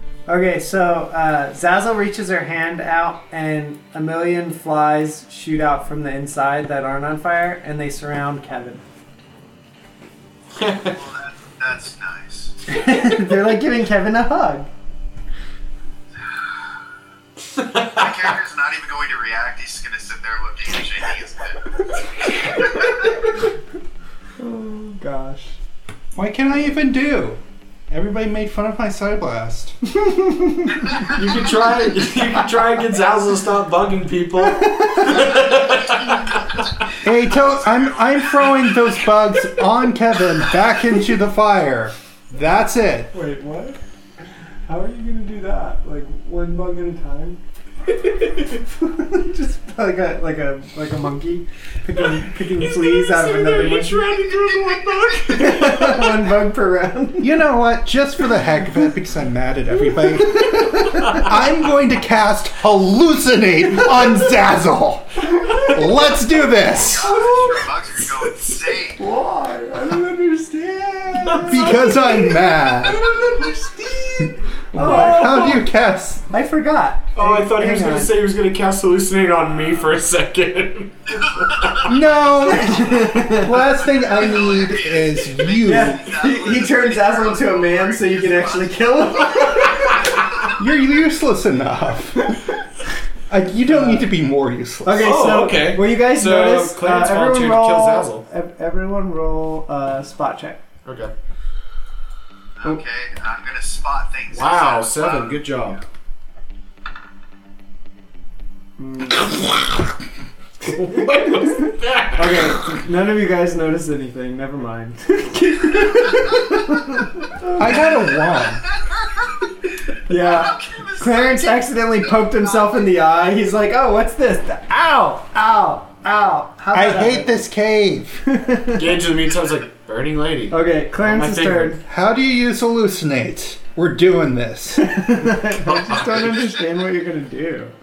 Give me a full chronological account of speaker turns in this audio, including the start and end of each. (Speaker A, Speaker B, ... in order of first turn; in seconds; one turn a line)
Speaker A: 0.3-8.8
Speaker B: 10.6-11.0
Speaker C: 10.9-12.6
Speaker A: 12.7-14.7
Speaker B: 17.5-18.3
Speaker C: 17.9-21.8
Speaker A: 22.5-22.8
Speaker C: 22.6-23.2
Speaker A: 24.4-25.6
Speaker D: 26.1-29.8
Speaker A: 29.9-31.4
Speaker B: 31.1-36.6
Speaker A: 34.5-35.2
Speaker D: 37.0-43.1
Speaker C: 38.2-38.7
Speaker A: 43.1-43.8
Speaker A: 44.7-47.4
Speaker A: 48.5-54.2
Speaker B: 52.2-56.3
Speaker C: 54.3-55.0
Speaker A: 55.3-57.3
Speaker D: 57.2-67.2
Speaker A: 60.3-61.3
Speaker B: 60.9-61.3
Speaker A: 65.3-65.8
Speaker C: 66.7-69.0
Speaker A: 66.9-67.7
Speaker B: 67.2-68.6
Speaker A: 69.0-71.9
Speaker B: 71.2-75.6
Speaker D: 71.4-73.0
Speaker A: 74.7-75.6
Speaker D: 74.7-76.3
Speaker A: 76.3-78.1
Speaker B: 77.2-81.9
Speaker C: 81.1-81.9
Speaker D: 81.8-86.0
Speaker A: 82.4-83.7
Speaker C: 83.6-90.6
Speaker A: 85.6-89.8
Speaker B: 89.8-90.1
Speaker D: 90.5-92.5
Speaker D: 93.3-95.1
Speaker A: 93.7-94.1
Speaker A: 94.8-100.6
Speaker B: 95.0-98.3
Speaker B: 100.8-101.1
Speaker C: 102.6-105.4
Speaker B: 104.3-105.8
Speaker A: 108.8-109.5
Speaker B: 109.3-109.5
Speaker B: 110.6-112.7
Speaker A: 111.2-117.8
Speaker D: 117.5-118.6
Speaker C: 118.3-122.9
Speaker A: 120.1-127.4
Speaker D: 126.7-128.3
Speaker A: 128.3-128.9
Speaker B: 128.7-131.8
Speaker A: 130.5-131.8
Speaker D: 131.9-135.1
Speaker A: 134.8-137.7
Speaker B: 135.5-136.6